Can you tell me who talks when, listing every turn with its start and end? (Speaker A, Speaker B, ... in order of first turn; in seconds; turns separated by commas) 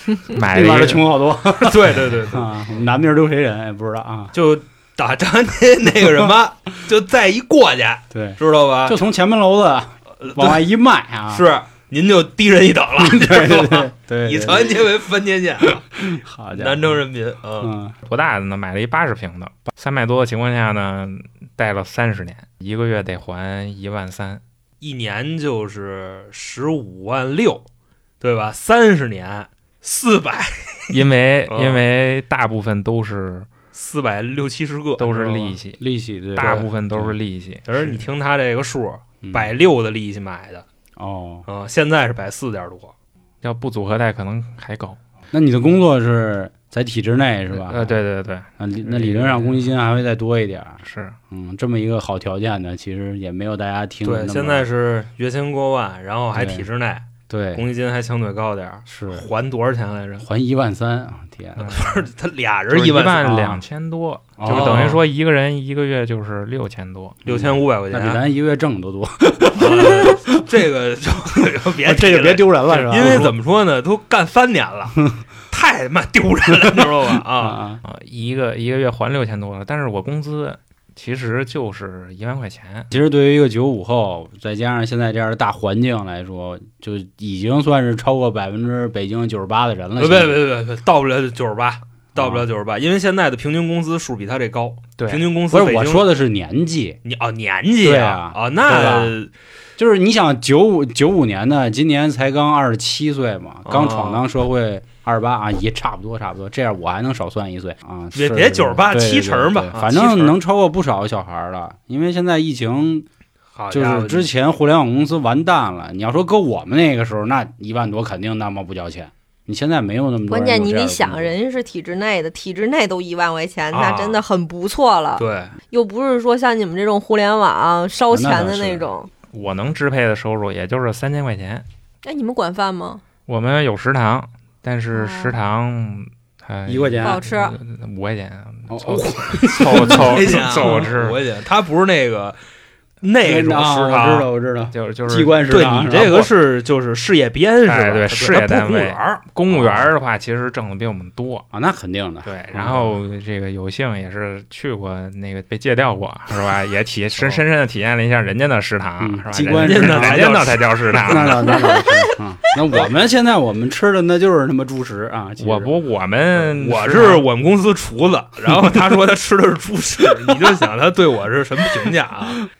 Speaker A: 0.3-1.0, Speaker B: 0.3-4.3, Speaker C: 1.6-2.5, Speaker C: 4.3-9.0, Speaker B: 8.1-11.5, Speaker C: 10.2-10.6, Speaker C: 11.3-17.7, Speaker B: 13.0-14.9, Speaker B: 15.9-17.0, Speaker B: 17.6-17.9, Speaker A: 18.0-24.4, Speaker C: 24.8-27.6, Speaker C: 28.2-31.8, Speaker A: 30.9-33.5, Speaker C: 33.7-35.6, Speaker A: 35.0-35.8, Speaker B: 35.8-37.1, Speaker A: 36.4-38.0, Speaker C: 36.4-36.7, Speaker C: 37.6-40.6, Speaker B: 39.2-39.5, Speaker B: 41.0-41.5, Speaker C: 41.5-42.9, Speaker A: 43.4-45.0, Speaker B: 45.3-48.0, Speaker A: 47.5-49.6, Speaker B: 48.6-54.7, Speaker A: 50.8-51.1, Speaker C: 54.0-60.3, Speaker B: 56.3-56.7, Speaker B: 57.3-57.6, Speaker B: 58.9-59.3, Speaker B: 60.2-61.8, Speaker C: 61.6-63.5, Speaker A: 62.7-67.2, Speaker B: 63.2-63.6, Speaker B: 64.4-65.0, Speaker C: 64.4-65.0, Speaker B: 67.2-70.4, Speaker C: 67.2-68.2, Speaker C: 69.5-77.6, Speaker B: 71.8-73.3, Speaker B: 77.3-77.8, Speaker A: 77.8-82.9, Speaker B: 82.9-90.4, Speaker C: 90.0-96.1, Speaker B: 92.1-92.5, Speaker A: 95.0-95.3, Speaker B: 95.5-97.0, Speaker C: 97.0-99.3, Speaker B: 97.8-99.1, Speaker B: 99.8-113.1, Speaker C: 103.7-104.2, Speaker C: 108.1-110.3, Speaker C: 113.5-114.3, Speaker B: 113.7-121.3, Speaker D: 120.3-129.1, Speaker C: 123.7-124.2, Speaker C: 125.2-125.5, Speaker B: 128.1-128.9, Speaker A: 129.3-131.7, Speaker D: 132.0-133.0, Speaker A: 133.3-141.2, Speaker D: 134.9-135.4, Speaker B: 136.7-137.2, Speaker D: 137.0-137.6, Speaker B: 138.7-140.8, Speaker C: 138.9-142.4, Speaker C: 143.0-144.3, Speaker B: 143.2-146.3, Speaker A: 144.7-145.3, Speaker C: 145.5-149.2, Speaker A: 147.7-151.4, Speaker B: 149.5-149.9, Speaker B: 151.5-152.9, Speaker A: 152.2-161.6, Speaker B: 159.0-160.3, Speaker C: 159.5-161.4, Speaker B: 161.0-165.7, Speaker D: 161.6-162.1, Speaker A: 165.4-167.2, Speaker C: 166.4-172.4